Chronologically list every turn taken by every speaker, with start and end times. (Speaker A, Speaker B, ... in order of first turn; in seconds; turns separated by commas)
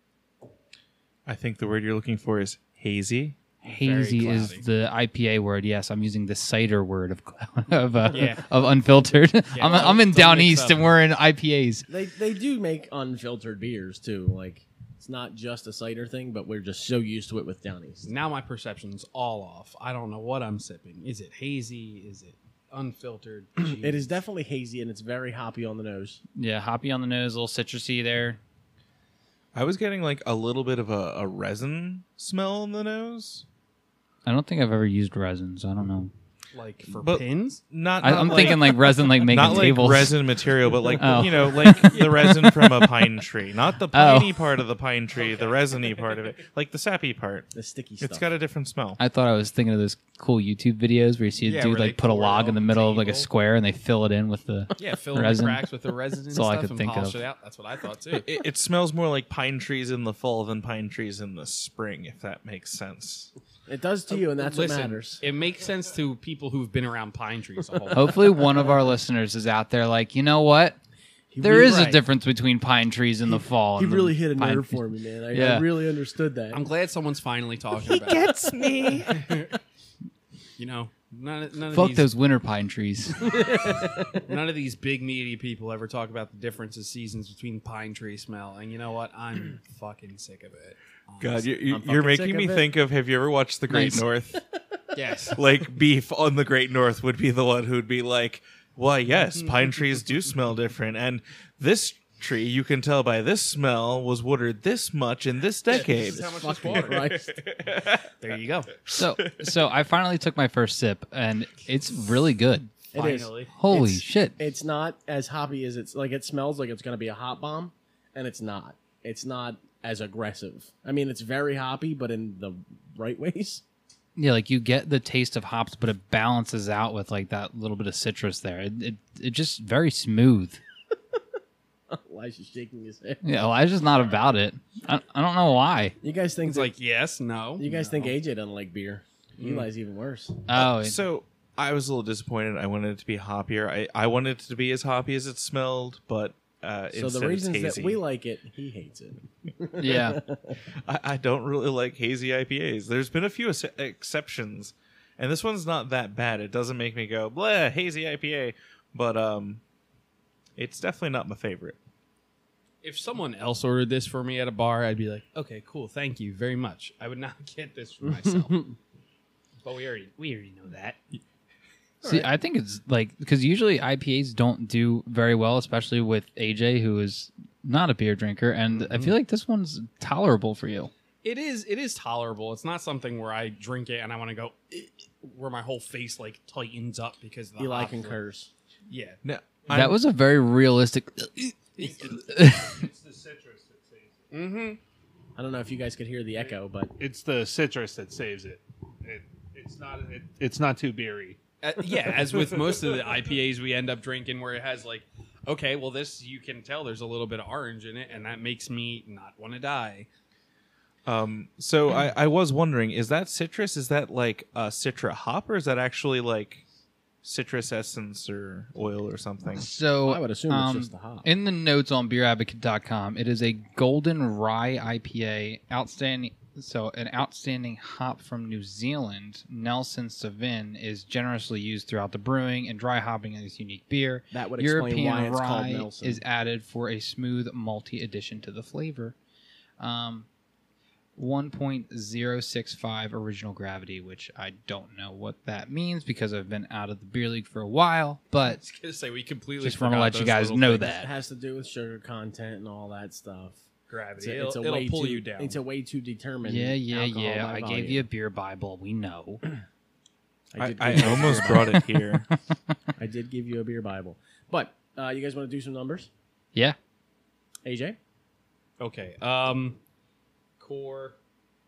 Speaker A: 1.3-3.4, Speaker B: 3.6-11.9, Speaker C: 3.6-4.7, Speaker C: 8.1-8.5, Speaker C: 9.5-11.0, Speaker D: 11.9-18.1, Speaker C: 18.1-24.1, Speaker D: 23.6-26.2, Speaker B: 26.4-28.4, Speaker A: 29.5-33.5, Speaker B: 34.3-36.1, Speaker C: 36.5-38.6, Speaker A: 37.0-47.5, Speaker B: 38.0-40.2, Speaker C: 39.4-39.7, Speaker B: 41.0-43.0, Speaker C: 41.1-42.2, Speaker B: 43.9-44.5, Speaker C: 45.1-46.2, Speaker D: 47.5-48.3, Speaker A: 48.0-49.0, Speaker B: 49.0-55.6, Speaker C: 51.5-53.3, Speaker C: 54.8-58.3, Speaker B: 56.3-57.2, Speaker A: 58.2-63.3, Speaker D: 63.7-65.2, Speaker C: 64.2-68.2, Speaker B: 67.9-70.8, Speaker D: 71.3-72.0, Speaker B: 71.4-75.7, Speaker D: 73.3-76.6, Speaker C: 76.5-78.4, Speaker A: 77.8-79.3, Speaker C: 79.1-79.5, Speaker C: 80.6-82.1, Speaker B: 81.7-83.3, Speaker D: 83.2-84.2, Speaker C: 84.2-91.5, Speaker A: 91.2-94.4, Speaker D: 91.7-92.7, Speaker B: 93.7-94.0, Speaker D: 94.3-94.8, Speaker C: 95.0-95.4, Speaker A: 95.3-106.8, Speaker C: 99.2-99.6, Speaker C: 105.7-108.8, Speaker D: 105.9-107.4, Speaker B: 108.9-112.7, Speaker C: 112.9-113.5, Speaker D: 112.9-123.6, Speaker B: 113.5-114.4, Speaker B: 124.2-130.6, Speaker D: 131.9-133.2, Speaker B: 133.2-136.0, Speaker D: 136.0-136.7, Speaker C: 136.4-138.2, Speaker D: 137.6-140.4, Speaker C: 139.4-139.7, Speaker B: 140.5-141.0, Speaker A: 140.6-148.0, Speaker D: 146.9-150.6, Speaker B: 149.8-150.2, Speaker A: 150.8-159.6, Speaker A: 160.6-161.8, Speaker C: 162.8-168.8, Speaker C: 169.7-171.2, Speaker B: 172.0-180.9, Speaker D: 172.0-172.3, Speaker C: 178.8-179.1, Speaker C: 181.2-188.2, Speaker D: 187.6-188.5, Speaker C: 188.9-189.2, Speaker A: 189.2-190.0, Speaker B: 189.7-192.8, Speaker E: 191.8-194.2, Speaker C: 194.3-194.8, Speaker D: 195.4-196.9, Speaker E: 197.0-201.4, Speaker C: 201.6-210.1, Speaker E: 202.3-203.1, Speaker A: 211.1-216.6, Speaker A: 217.2-219.8, Speaker B: 219.5-239.2, Speaker D: 220.0-221.3, Speaker D: 234.3-236.2, Speaker B: 239.8-240.3, Speaker B: 241.2-248.6, Speaker C: 248.4-251.0, Speaker B: 249.6-251.1, Speaker D: 250.9-253.7, Speaker C: 253.9-255.6, Speaker D: 254.2-258.1, Speaker B: 256.4-259.4, Speaker D: 260.5-261.8, Speaker A: 260.6-262.3, Speaker B: 261.0-261.8, Speaker D: 263.0-266.1, Speaker D: 267.6-268.0, Speaker C: 268.8-269.8, Speaker C: 270.6-271.2